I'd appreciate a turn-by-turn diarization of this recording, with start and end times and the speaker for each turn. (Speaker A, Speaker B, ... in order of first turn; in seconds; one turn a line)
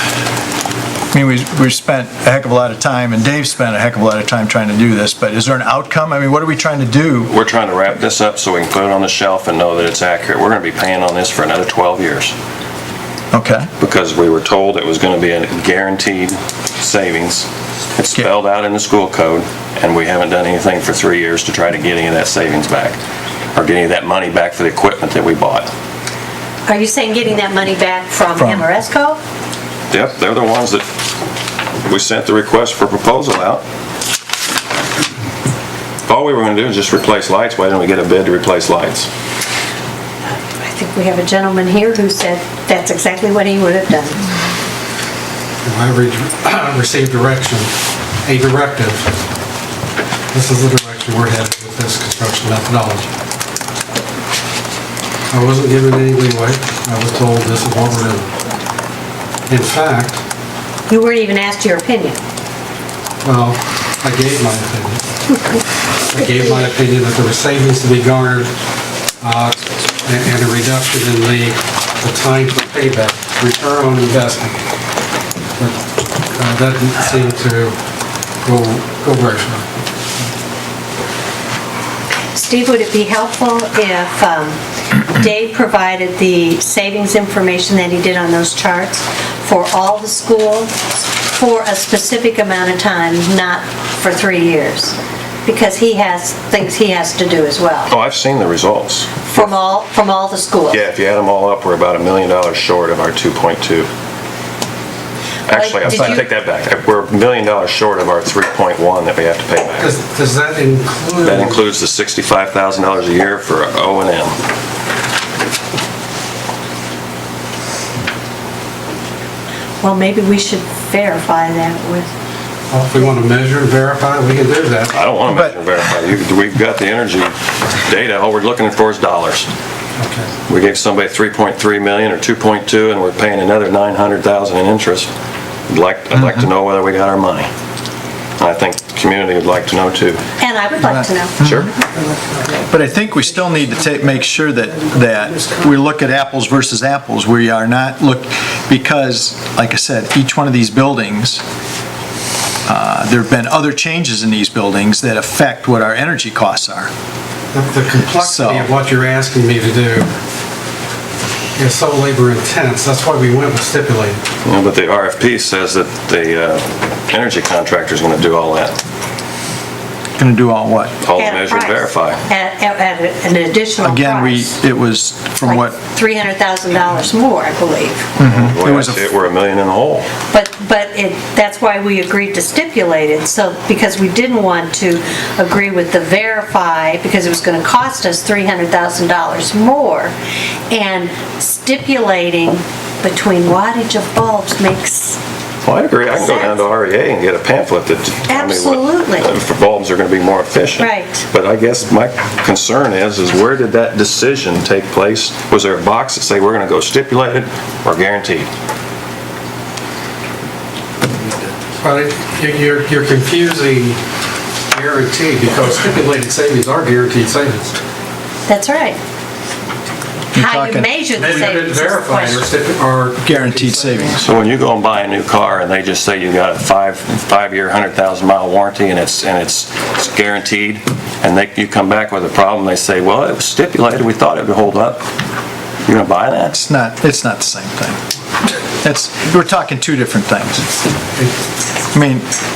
Speaker A: 1.1-7.3
Speaker B: 7.3-12.3
Speaker A: 13.3-13.7
Speaker B: 13.8-23.0
Speaker B: 23.5-25.7
Speaker C: 26.7-29.2
Speaker A: 28.4-28.7
Speaker B: 29.9-30.8
Speaker B: 31.8-33.6
Speaker B: 36.1-39.1
Speaker C: 40.6-44.3
Speaker D: 45.6-47.7
Speaker D: 48.2-49.1
Speaker D: 50.3-53.1
Speaker D: 55.3-58.3
Speaker D: 59.5-60.2
Speaker C: 60.9-62.2
Speaker D: 63.2-65.0
Speaker D: 65.9-68.5
Speaker D: 69.2-74.6
Speaker D: 75.6-77.8
Speaker D: 78.4-79.7
Speaker C: 82.3-97.9
Speaker B: 97.9-99.5
Speaker C: 99.3-100.8
Speaker B: 100.7-103.9
Speaker B: 105.5-109.9
Speaker C: 105.5-106.2
Speaker D: 109.8-111.6
Speaker B: 111.2-114.3
Speaker C: 119.8-122.1
Speaker D: 122.7-125.0
Speaker B: 124.9-129.5
Speaker A: 125.3-125.6
Speaker D: 130.0-130.3
Speaker B: 130.5-135.1
Speaker B: 135.7-137.5
Speaker B: 138.4-140.2
Speaker C: 140.4-141.4
Speaker A: 140.8-141.7
Speaker B: 141.4-141.7
Speaker C: 141.9-142.5
Speaker A: 142.7-151.4
Speaker A: 152.7-156.9
Speaker D: 157.5-160.1
Speaker A: 158.2-158.7
Speaker D: 161.6-164.2
Speaker B: 164.4-168.8
Speaker A: 170.2-170.9
Speaker B: 171.0-172.2
Speaker C: 171.1-174.6
Speaker A: 173.8-175.8
Speaker C: 175.4-178.1
Speaker A: 178.2-179.1
Speaker B: 178.2-180.1
Speaker C: 180.3-190.1
Speaker C: 190.7-195.2
Speaker B: 195.6-208.5
Speaker C: 196.1-196.6
Speaker C: 198.3-199.3
Speaker C: 200.8-201.2
Speaker D: 211.8-214.0
Speaker D: 214.7-217.8
Speaker C: 218.5-219.0
Speaker A: 220.3-220.9
Speaker C: 220.3-222.5
Speaker D: 221.2-224.2
Speaker A: 223.2-224.3
Speaker B: 224.2-235.0
Speaker B: 235.8-236.6
Speaker A: 236.5-238.0
Speaker A: 238.8-240.6
Speaker A: 241.9-242.3